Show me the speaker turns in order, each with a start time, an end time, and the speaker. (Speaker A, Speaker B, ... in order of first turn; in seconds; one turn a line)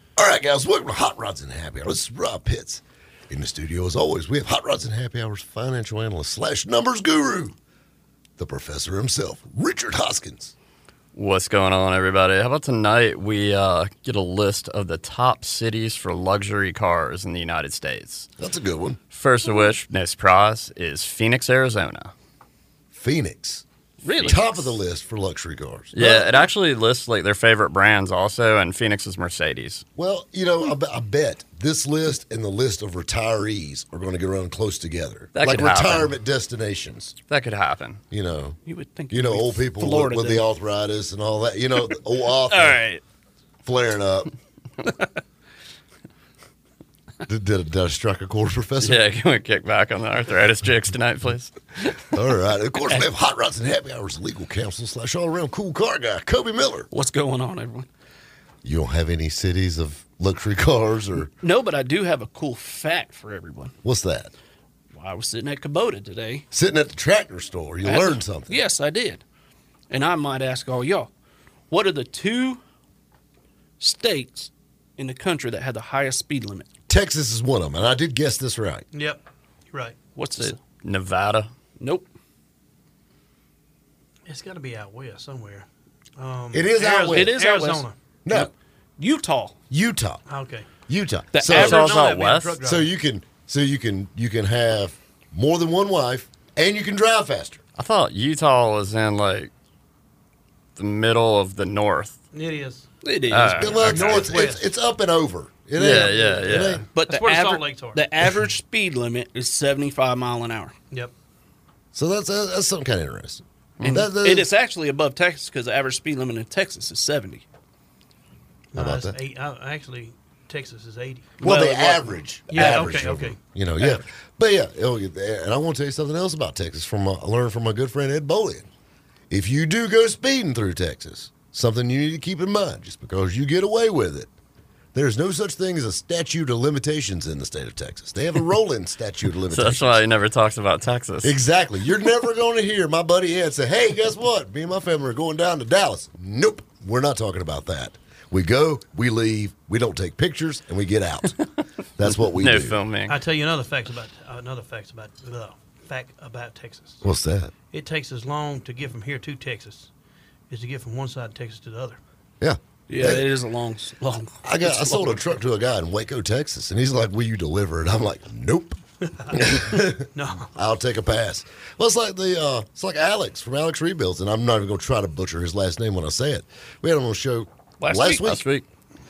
Speaker A: 0.2-7.6
Speaker A: 8.4-10.5
Speaker B: 11.1-18.3
Speaker A: 18.4-19.0
Speaker B: 19.1-22.1
Speaker A: 22.9-23.6
Speaker C: 24.0-24.7
Speaker A: 24.2-26.5
Speaker B: 25.9-29.9
Speaker A: 30.0-37.2
Speaker B: 35.4-36.1
Speaker B: 37.3-38.0
Speaker A: 38.1-38.6
Speaker C: 38.6-40.4
Speaker A: 39.1-42.8
Speaker C: 42.5-43.0
Speaker A: 43.6-44.3
Speaker A: 47.3-49.0
Speaker B: 48.8-51.5
Speaker A: 52.1-56.9
Speaker C: 56.9-57.9
Speaker A: 58.6-61.3
Speaker C: 61.4-63.8
Speaker A: 63.8-64.3
Speaker C: 64.9-66.5
Speaker A: 66.5-68.6
Speaker C: 67.8-69.2
Speaker C: 69.9-71.1
Speaker C: 71.7-72.6
Speaker C: 73.8-76.7
Speaker A: 76.9-78.9
Speaker D: 78.9-80.0
Speaker C: 80.2-80.6
Speaker B: 80.4-81.5
Speaker C: 81.8-82.1
Speaker D: 84.3-85.7
Speaker D: 86.2-87.9
Speaker A: 86.5-87.3
Speaker C: 87.0-88.5
Speaker A: 88.3-88.5
Speaker C: 89.0-89.6
Speaker A: 89.7-90.2
Speaker D: 90.3-90.7
Speaker A: 90.9-91.9
Speaker C: 91.3-92.0
Speaker B: 91.4-92.6
Speaker D: 91.5-92.9
Speaker A: 92.6-97.6
Speaker B: 97.8-99.5
Speaker B: 100.8-102.2
Speaker D: 102.3-102.9
Speaker C: 103.0-103.9
Speaker B: 103.3-104.3
Speaker A: 103.5-106.8
Speaker D: 103.8-104.7
Speaker B: 105.8-106.9
Speaker C: 106.9-110.8
Speaker D: 107.0-108.0
Speaker A: 111.9-114.5
Speaker B: 113.8-114.1
Speaker C: 113.8-117.5
Speaker D: 118.7-121.4
Speaker A: 118.8-119.2
Speaker C: 121.4-123.0
Speaker A: 121.4-128.7
Speaker D: 122.5-123.4
Speaker A: 129.3-134.3
Speaker A: 134.9-140.0
Speaker B: 139.5-141.3
Speaker A: 141.2-151.4
Speaker A: 152.0-152.8
Speaker B: 152.0-153.2
Speaker D: 153.1-157.1
Speaker A: 157.0-157.5
Speaker D: 157.7-159.9
Speaker D: 160.5-162.0
Speaker A: 162.4-163.3
Speaker C: 162.9-165.2
Speaker A: 164.4-168.8
Speaker D: 169.2-170.5
Speaker A: 169.3-178.4
Speaker C: 177.8-178.3
Speaker B: 178.2-178.7